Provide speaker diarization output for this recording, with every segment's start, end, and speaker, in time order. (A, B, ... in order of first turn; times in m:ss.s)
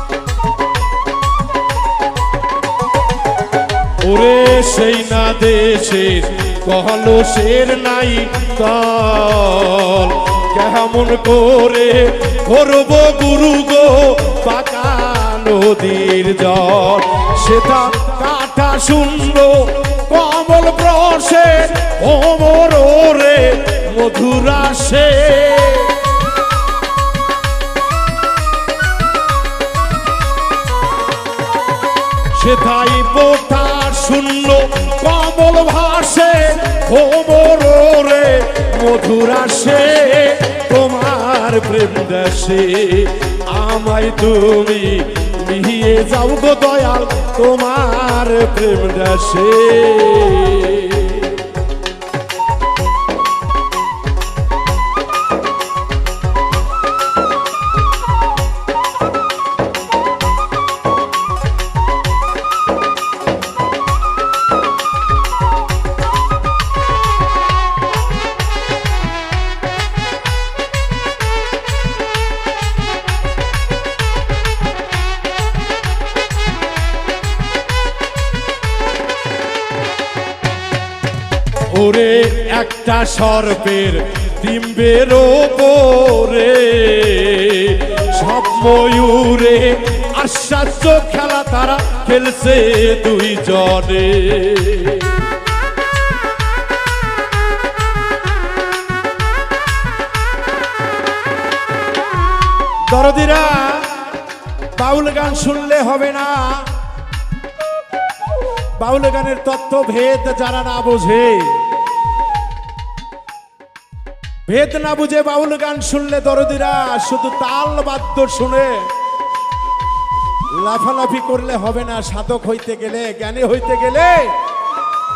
0:04.0-0:26.1 A
0:32.3-0:51.5 A
1:21.6-1:35.3 A
1:42.8-1:44.2 A
1:44.7-1:46.8 A
1:48.8-1:51.7 A
1:54.4-1:58.9 A
2:00.5-2:04.4 A